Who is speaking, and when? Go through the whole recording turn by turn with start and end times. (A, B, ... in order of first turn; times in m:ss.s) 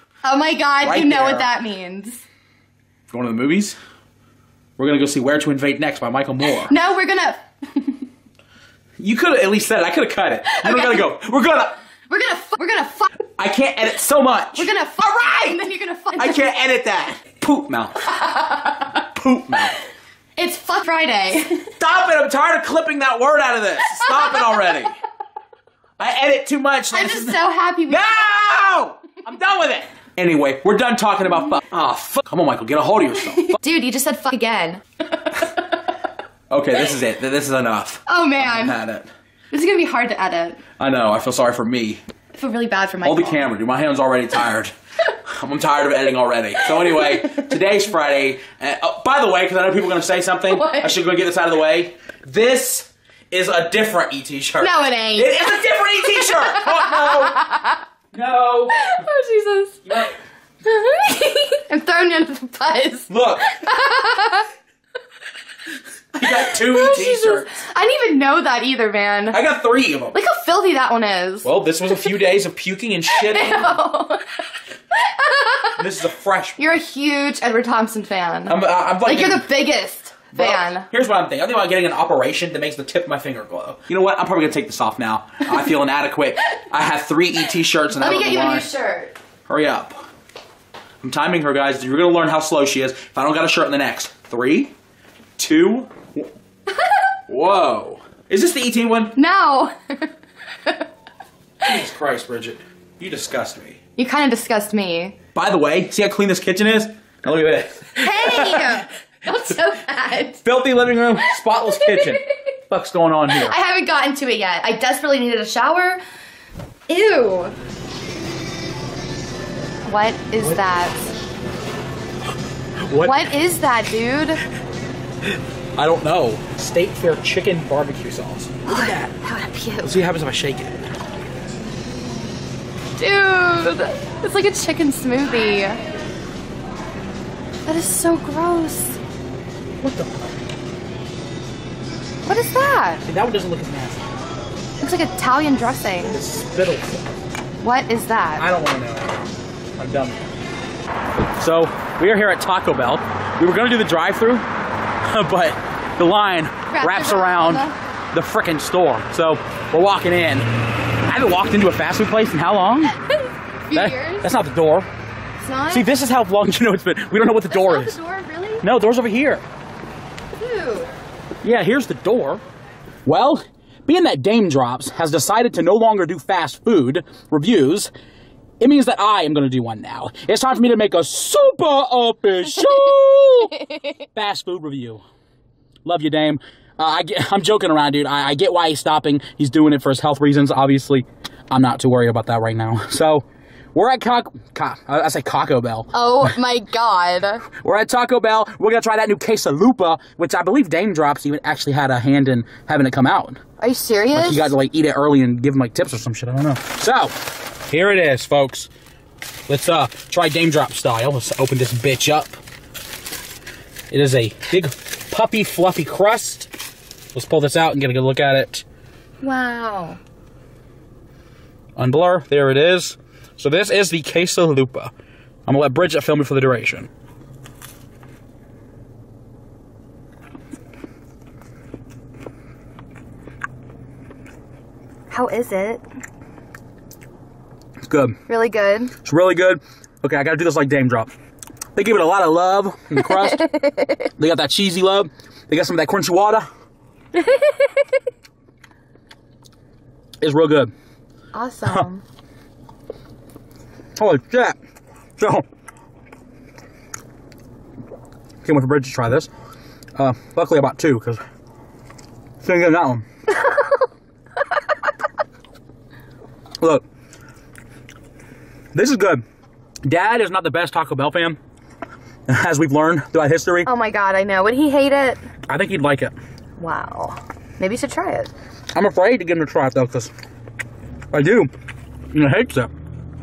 0:00.2-0:02.2 A
0:00.8-0:01.5 B
0:03.1-0:03.8 B
0:04.8-0:06.7 B
0:06.6-0:08.1 A
0:09.0-0:11.8 B
0:10.5-0:11.1 A
0:12.1-0:13.1 A
0:13.4-0:14.7 B
0:14.6-0:16.5 A
0:16.2-0:18.2 B
0:18.1-0:19.0 A
0:19.0-0:19.8 B
0:20.4-0:21.7 A
0:21.8-0:25.0 B
0:24.1-0:24.5 A
0:26.0-0:33.6 B
0:26.9-0:28.4 A
0:33.6-0:35.7 A
0:36.5-0:39.1 B
0:38.1-0:38.8 A
0:39.5-0:40.6 A
0:40.8-0:42.0 B
0:42.3-0:43.5 A
0:43.0-0:57.4 B
0:46.8-0:47.2 A
0:50.5-0:50.9 A
0:54.6-0:57.8 A
0:58.1-0:58.9 B
0:58.7-1:00.1 A
0:59.9-1:00.1 B
1:00.6-1:04.5 A
1:03.1-1:03.6 B
1:06.1-1:07.6 B
1:06.3-1:09.4 A
1:09.3-1:10.2 B
1:10.1-1:11.5 A
1:11.4-1:13.8 B
1:13.1-1:15.8 A
1:15.8-1:16.8 B
1:16.6-1:20.9 A
1:18.5-1:19.5 B
1:20.3-1:28.7 B
1:27.9-1:29.2 A
1:29.5-1:30.0 B
1:31.0-1:34.7 B
1:35.4-1:36.3 B
1:37.3-1:39.2 B
1:39.2-1:40.1 A
1:41.6-1:43.8 B
1:44.0-1:45.2 A
1:45.3-1:48.8 B
1:48.0-1:50.4 A
1:50.4-1:53.6 B
1:51.2-1:52.3 A
1:53.3-1:56.0 A
1:56.9-1:57.6 A
1:59.9-2:01.1 A
2:02.8-2:03.3 B
2:03.0-2:04.4 A
2:05.8-2:09.2 B
2:08.7-2:09.9 A
2:09.8-2:11.0 B
2:13.0-2:15.8 A
2:17.7-2:19.0 A
2:19.8-2:20.3 B
2:22.2-2:23.0 A
2:23.0-2:24.0 B
2:24.8-2:26.2 A
2:26.1-2:27.1 B
2:27.6-2:28.4 A
2:28.4-2:29.2 B
2:29.8-2:30.2 B
2:31.4-2:34.4 B
2:35.0-2:40.5 B
2:36.7-2:37.8 A
2:41.0-2:43.0 B
2:43.7-2:44.3 A
2:43.7-2:44.9 B
2:45.4-2:45.9 A
2:45.7-2:48.0 B
2:47.5-2:48.7 A
2:48.6-2:49.4 B
2:50.3-2:50.9 A
2:51.4-2:52.4 B
2:53.0-2:57.9 B
2:58.6-3:05.0 B
3:05.8-3:16.4 B
3:15.9-3:17.4 A
3:17.5-3:23.4 B
3:23.6-3:24.5 A
3:24.1-3:27.1 B
3:27.7-3:28.7 B
3:29.5-3:32.4 B
3:33.9-3:36.5 B
3:37.1-3:38.6 B
3:39.2-3:40.0 A
3:41.8-3:44.9 B
3:45.5-3:46.9 B
3:55.1-3:55.8 A
3:57.8-3:58.2 B
3:58.3-3:58.9 A
3:59.0-4:01.1 B
4:01.8-4:03.7 B
4:03.1-4:03.8 A
4:04.2-4:06.5 B
4:07.2-4:07.7 A
4:10.2-4:10.7 B
4:11.3-4:12.0 A
4:14.0-4:14.6 B
4:15.2-4:15.4 B
4:18.4-4:19.3 B
4:20.0-4:21.2 B
4:22.4-4:23.0 B
4:28.7-4:29.2 B
4:29.8-4:31.4 B
4:32.3-4:33.7 B
4:33.7-4:35.2 A
4:35.5-4:36.1 B
4:36.6-4:38.3 A
4:38.7-4:40.1 B
4:41.1-4:41.5 B
4:42.1-4:42.7 B